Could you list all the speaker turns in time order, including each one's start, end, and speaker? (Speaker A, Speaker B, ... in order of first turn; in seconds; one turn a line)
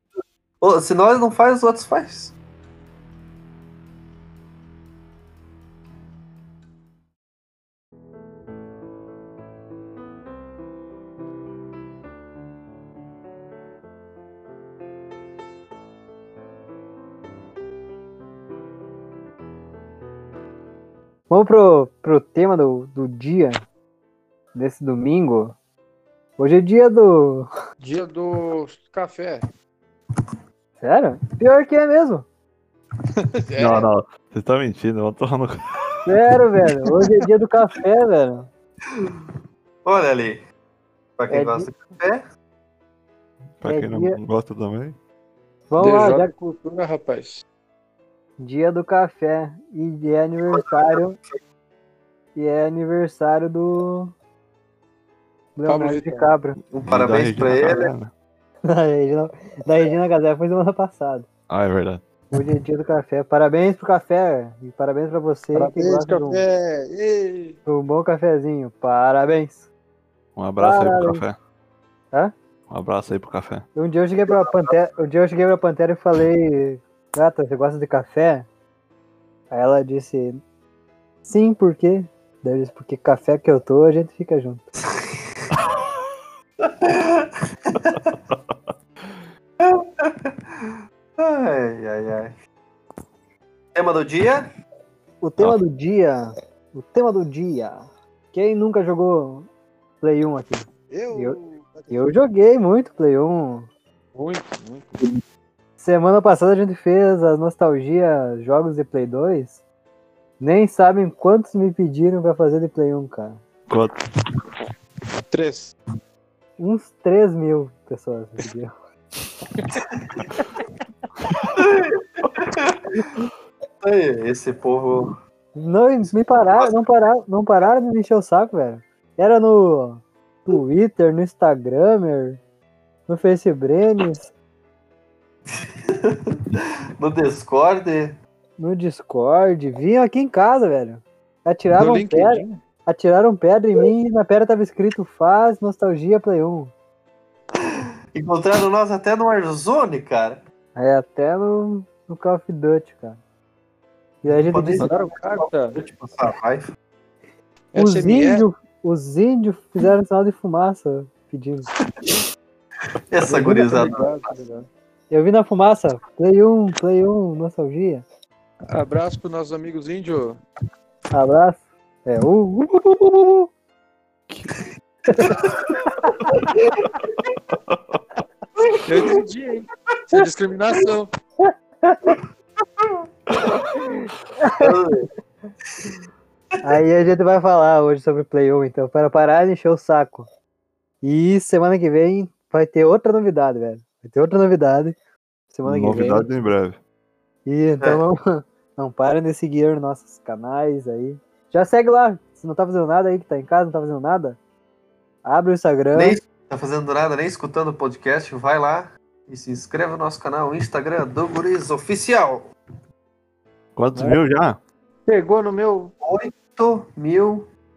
Speaker A: 0.6-2.4
Speaker B: 21.3-23.6
Speaker B: 24.6-25.6
Speaker B: 26.4-27.5
Speaker C: 27.8-29.5
Speaker B: 30.8-32.2
Speaker C: 33.1-33.9
Speaker D: 33.6-35.6
Speaker B: 36.1-38.5
Speaker A: 38.9-39.3
Speaker A: 39.9-40.4
Speaker A: 41.2-42.2
Speaker B: 41.3-41.7
Speaker D: 43.6-45.0
Speaker B: 43.6-44.2
Speaker B: 45.7-46.3
Speaker C: 45.8-47.4
Speaker B: 48.4-51.2
Speaker A: 50.5-51.0
Speaker B: 52.4-54.1
Speaker B: 55.6-56.6
Speaker C: 55.7-56.3
Speaker A: 56.7-57.9
Speaker D: 56.9-58.1
Speaker B: 58.7-61.3
Speaker D: 61.5-62.0
Speaker B: 62.3-66.4
Speaker C: 65.5-67.6
Speaker B: 67.7-69.7
Speaker D: 70.4-71.4
Speaker B: 70.6-71.2
Speaker D: 72.7-73.7
Speaker B: 73.8-78.5
Speaker B: 79.5-80.4
Speaker B: 81.2-84.6
Speaker A: 85.0-85.5
Speaker A: 86.6-88.2
Speaker D: 87.9-88.5
Speaker A: 89.6-92.3
Speaker A: 93.7-94.5
Speaker B: 95.2-99.5
Speaker B: 100.0-101.4
Speaker C: 100.9-102.0
Speaker B: 101.9-103.7
Speaker C: 104.2-105.0
Speaker B: 105.8-109.6
Speaker B: 110.4-113.4
Speaker D: 113.7-114.0
Speaker C: 115.3-115.7
Speaker B: 116.6-118.7
Speaker A: 120.0-120.2
Speaker A: 121.5-123.3
Speaker A: 123.8-125.1
Speaker B: 125.6-132.4
Speaker B: 133.1-134.3
Speaker A: 135.5-136.3
Speaker A: 137.0-138.2
Speaker B: 138.6-146.7
Speaker C: 141.8-142.6
Speaker A: 148.1-150.4
Speaker B: 150.8-153.2
Speaker B: 154.2-154.9
Speaker A: 154.3-156.7
Speaker C: 154.8-155.8
Speaker C: 157.7-158.5
Speaker B: 157.8-161.7
Speaker A: 163.1-164.3
Speaker C: 163.2-164.7
Speaker B: 165.1-168.0
Speaker C: 168.7-170.4
Speaker B: 171.1-172.8
Speaker B: 175.1-176.1
Speaker D: 177.5-178.0
Speaker C: 178.8-181.1
Speaker B: 181.4-182.2
Speaker B: 184.4-184.7
Speaker A: 184.6-185.1
Speaker B: 186.6-190.3
Speaker B: 191.0-194.9
Speaker B: 195.5-196.3
Speaker D: 195.7-196.8
Speaker B: 197.5-204.4
Speaker B: 205.2-206.2
Speaker A: 205.9-212.5
Speaker D: 213.8-214.6
Speaker C: 215.1-215.9
Speaker A: 216.0-217.5